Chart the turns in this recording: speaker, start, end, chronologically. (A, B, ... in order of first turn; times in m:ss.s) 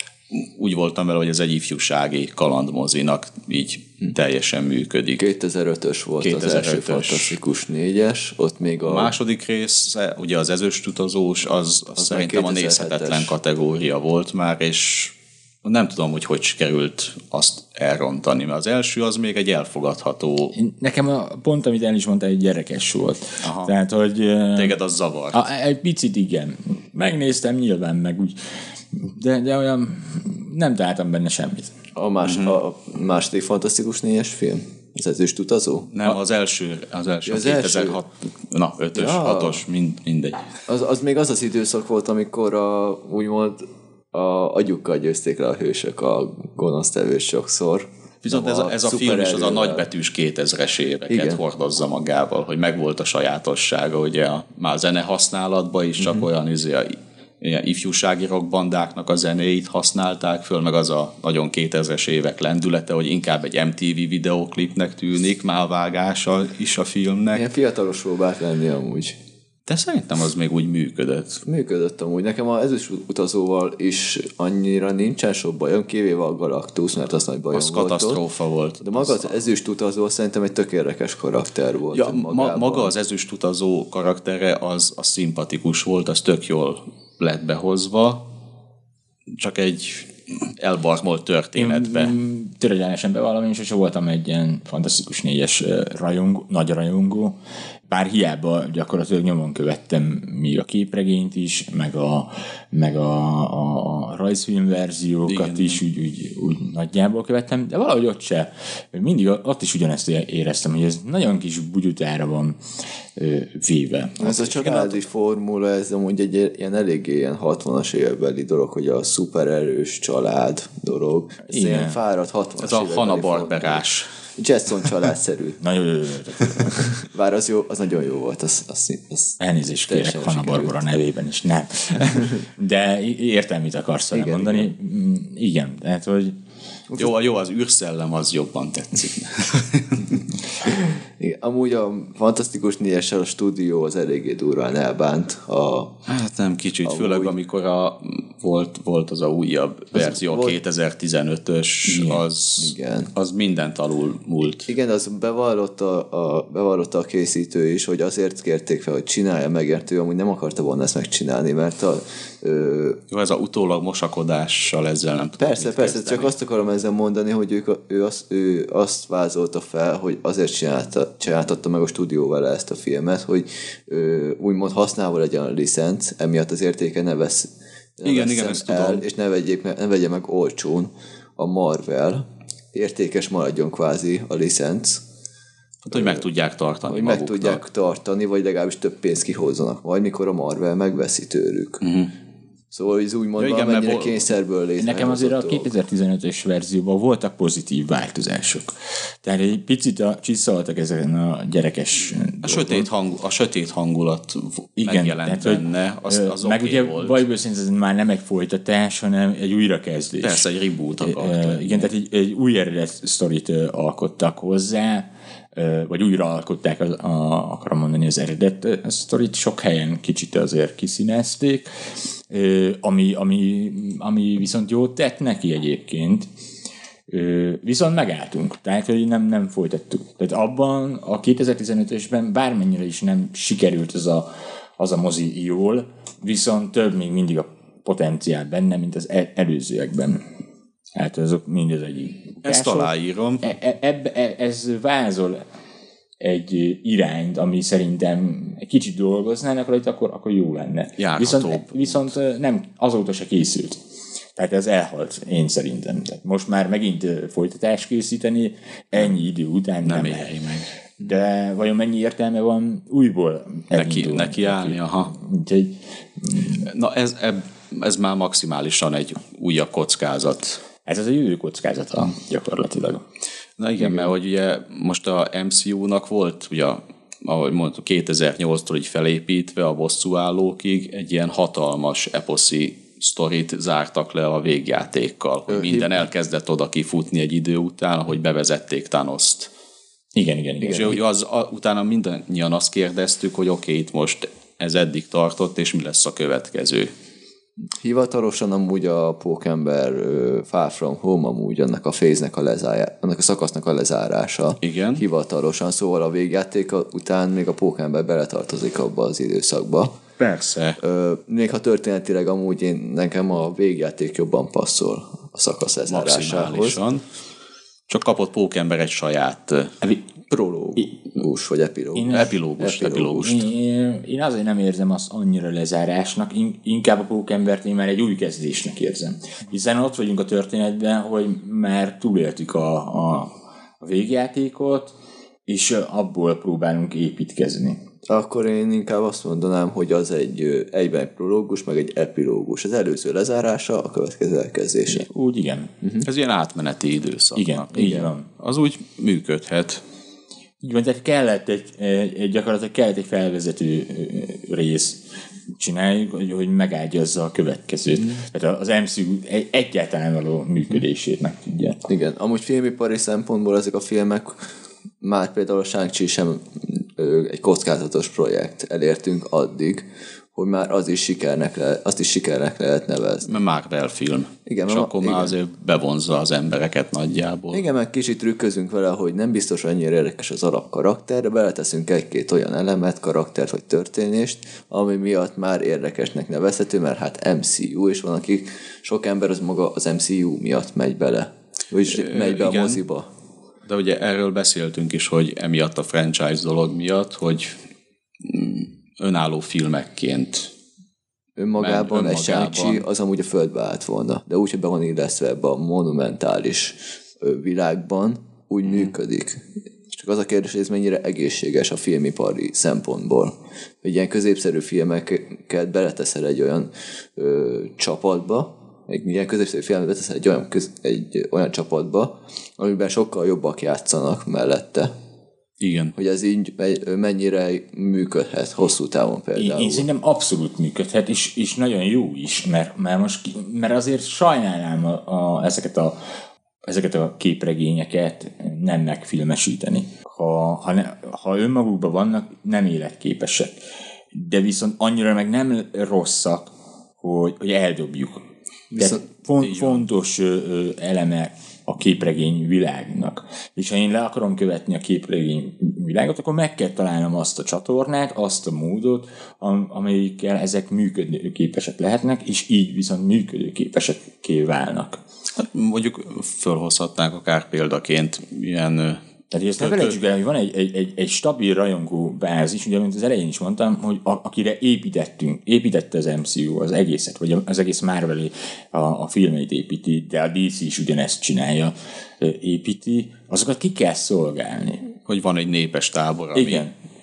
0:00.3-0:05.2 A
0:05.2-0:09.1 B
0:06.2-0:07.4 A
0:08.8-0:20.5 A
0:12.0-0:13.3 B
0:20.5-0:24.8 C
0:23.4-0:23.7 A
0:24.5-0:25.4 A
0:25.3-0:28.4 C
0:28.9-0:31.7 C
0:31.9-0:36.2 B
0:32.2-0:32.6 A
0:35.9-0:40.4 A
0:37.2-0:38.0 B
0:38.9-0:39.6 B
0:40.7-0:49.8 B
0:48.2-1:07.5 A
0:51.1-0:51.4 B
1:07.3-1:09.2 B
1:09.7-1:11.4 A
1:11.4-1:18.2 B
1:17.5-1:19.3 A
1:18.8-1:22.9 B
1:21.9-1:28.3 A
1:29.4-1:32.2 A
1:31.6-1:52.6 C
1:45.2-1:45.8 A
1:53.2-1:54.8 C
1:54.2-2:05.6 B
2:01.5-2:02.0 C
2:02.6-2:04.1 A
2:05.6-2:06.9 C
2:06.6-2:10.8 B
2:09.4-2:16.4 C
2:14.1-2:14.7 B
2:16.9-2:20.2 A
2:20.6-2:26.0 B
2:26.0-2:34.7 A
2:26.8-2:27.3 B
2:29.9-2:30.6 B
2:31.9-2:32.2 C
2:32.6-2:33.1 B
2:34.7-2:43.0 B
2:43.1-2:46.3 A
2:45.4-3:05.0 B
2:58.0-2:59.0 A
3:05.8-3:07.6 A
3:05.9-3:06.2 B
3:06.9-3:11.8 B
3:11.8-3:12.1 A
3:12.7-3:15.7 B
3:13.4-3:14.2 A
3:14.8-3:22.9 C
3:22.4-3:27.2 A
3:24.8-3:30.4 C
3:30.2-3:31.9 A
3:31.0-3:41.7 C
3:42.3-3:46.3 C
3:47.1-4:00.2 C
4:00.9-4:02.9 C
4:02.4-4:03.4 A
4:03.4-4:05.4 C
4:06.2-4:13.8 C
4:11.0-4:12.1 A
4:14.4-4:20.4 C
4:19.8-4:20.7 A
4:21.0-4:26.6 C
4:23.7-4:25.1 A
4:26.6-4:30.6 A
4:30.8-4:33.0 C
4:33.6-4:49.5 A
4:33.8-4:34.1 C
4:45.5-4:46.0 B
4:50.1-4:51.0 C
4:50.6-4:56.9 A
4:57.8-5:10.0 B
5:04.6-5:05.0 A
5:10.2-5:10.5 C
5:10.3-5:10.8 A
5:10.8-5:16.8 B
5:15.9-5:17.0 A
5:17.9-5:19.8 A
5:20.3-5:23.3 B
5:22.0-5:22.3 C
5:22.0-5:23.4 A
5:23.2-5:34.9 C
5:35.5-5:37.8 C
5:38.1-5:45.0 B
5:44.9-5:45.7 C
5:46.0-5:49.8 A
5:47.4-5:48.2 C
5:47.8-5:48.0 B
5:50.6-5:55.0 C
5:55.6-6:01.8 C
5:58.0-5:58.2 B
6:01.9-6:04.4 B
6:05.0-6:13.3 B
6:13.2-6:17.6 A
6:14.4-6:15.3 B
6:17.5-6:33.1 B
6:31.9-6:32.8 A
6:33.6-6:37.6 A
6:38.2-6:40.5 A
6:41.4-7:04.9 B
6:41.6-6:42.8 A
7:05.6-7:05.9 A
7:06.0-7:09.9 B
7:09.4-7:16.0 C
7:16.6-7:23.6 C
7:24.1-7:28.2 C
7:28.7-7:29.0 B
7:28.8-7:45.0 C
7:29.4-7:29.8 A
7:45.4-7:49.0 A
7:49.3-8:04.9 C
7:49.6-7:50.0 A
8:05.0-8:06.7 A
8:06.3-8:06.7 C